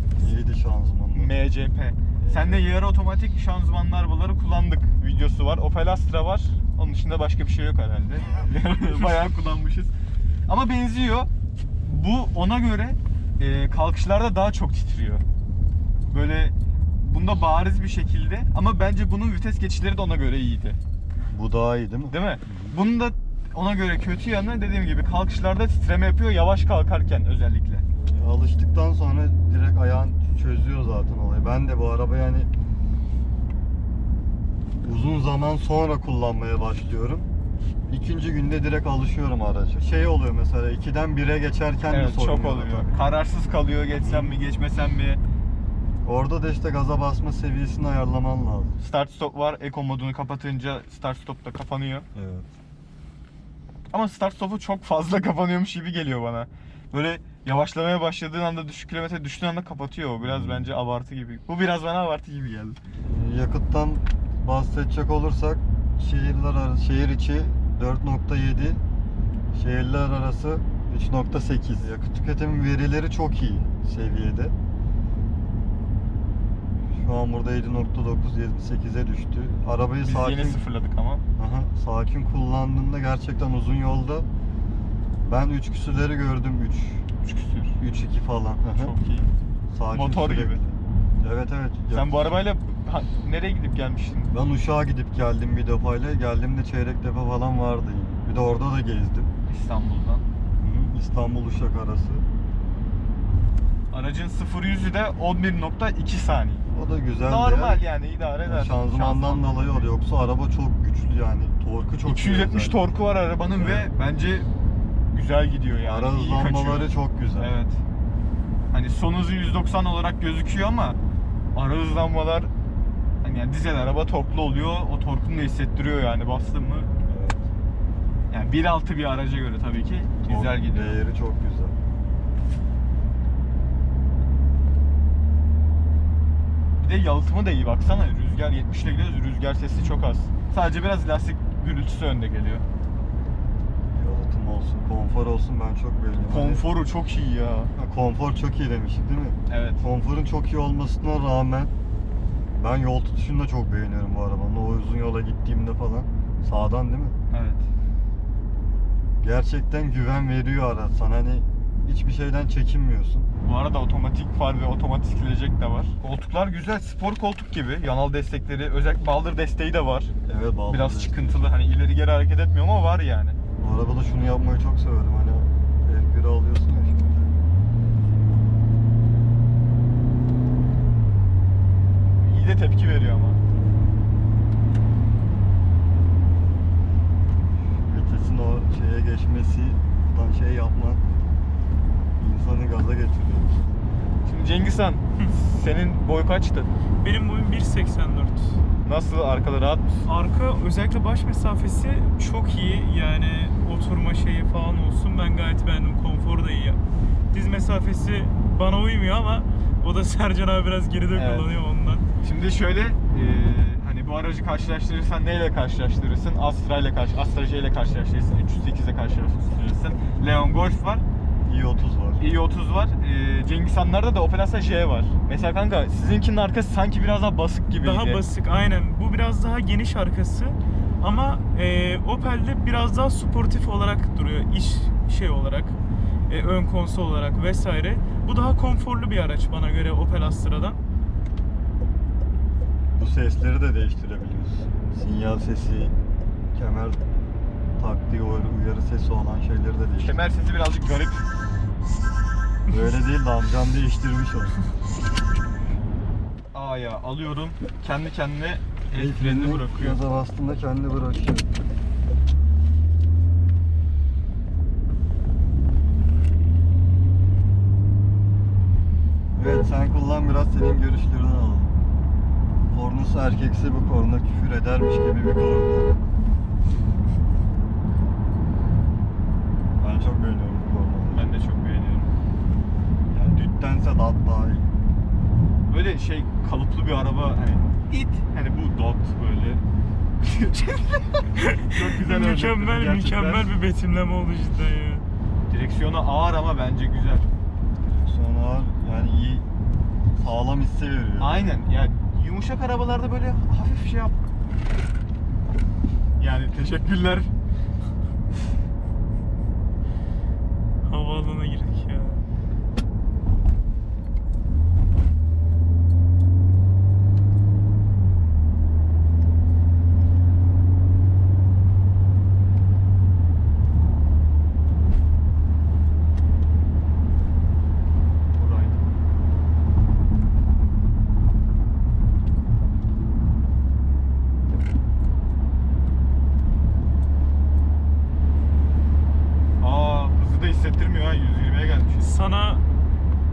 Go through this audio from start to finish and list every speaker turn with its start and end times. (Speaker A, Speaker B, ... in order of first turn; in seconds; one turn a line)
Speaker A: 0.2-1.4
Speaker B: 1.1-9.9
Speaker A: 2.2-2.8
Speaker B: 10.5-11.3
Speaker B: 11.8-15.2
Speaker B: 16.1-20.8
Speaker A: 21.3-22.8
Speaker B: 22.1-27.9
Speaker A: 28.1-32.5
Speaker A: 34.8-37.3
Speaker A: 37.9-43.0
Speaker B: 41.9-45.2
Speaker A: 43.9-44.4
Speaker A: 46.0-48.8
Speaker B: 48.8-52.1
Speaker A: 52.1-52.5
Speaker B: 53.9-62.8
Speaker A: 60.2-60.7
Speaker A: 63.1-68.8
Speaker A: 69.5-74.5
Speaker A: 76.8-80.7
Speaker B: 80.0-81.2
Speaker A: 81.4-84.3
Speaker A: 85.2-87.0
Speaker B: 87.2-87.8
Speaker A: 87.8-88.9
Speaker B: 88.7-89.3
Speaker A: 89.7-92.3
Speaker B: 89.9-90.6
Speaker B: 91.9-94.3
Speaker A: 94.3-99.3
Speaker B: 99.5-100.2
Speaker A: 100.6-102.2
Speaker B: 103.9-106.7
Speaker A: 106.7-107.8
Speaker B: 107.2-109.9
Speaker A: 108.4-112.8
Speaker B: 112.0-114.5
Speaker A: 113.6-113.9
Speaker B: 115.1-117.8
Speaker A: 115.8-117.5
Speaker B: 118.7-121.0
Speaker B: 121.5-122.5
Speaker B: 123.2-126.9
Speaker A: 127.1-127.5
Speaker B: 128.3-131.0
Speaker A: 130.2-131.8
Speaker B: 136.8-142.6
Speaker A: 143.9-146.7
Speaker B: 146.3-147.7
Speaker A: 147.8-151.7
Speaker B: 149.5-149.8
Speaker A: 152.6-157.2
Speaker B: 157.3-157.7
Speaker A: 159.2-163.3
Speaker B: 163.4-170.1
Speaker A: 170.2-171.6
Speaker B: 170.7-173.4
Speaker A: 173.6-177.4
Speaker B: 182.2-183.4
Speaker A: 187.9-191.0
Speaker A: 192.2-193.7
Speaker B: 194.3-196.7
Speaker C: 197.0-198.6
Speaker B: 198.8-200.1
Speaker C: 200.1-206.8
Speaker C: 207.3-212.1
Speaker B: 211.2-211.6
Speaker B: 212.2-221.0
Speaker A: 221.5-222.3
Speaker B: 222.2-228.2
Speaker C: 227.8-235.8
Speaker C: 236.3-240.8
Speaker A: 243.0-245.9
Speaker A: 246.6-247.0
Speaker A: 247.8-250.2
Speaker B: 250.0-251.2
Speaker A: 252.7-254.6
Speaker B: 256.5-260.0
Speaker A: 258.9-261.5
Speaker A: 269.4-271.7
Speaker A: 272.7-276.0
Speaker A: 279.8-281.3
Speaker B: 281.1-282.1
Speaker A: 283.1-284.7
Speaker B: 285.7-289.6
Speaker B: 290.2-293.5
Speaker C: 291.4-295.1
Speaker B: 295.5-297.3
Speaker A: 297.8-299.5
Speaker A: 300.1-301.5
Speaker B: 301.2-304.1
Speaker B: 306.2-307.3
Speaker C: 310.8-312.2
Speaker B: 328.4-328.8
Speaker B: 339.6-342.1
Speaker C: 342.0-342.6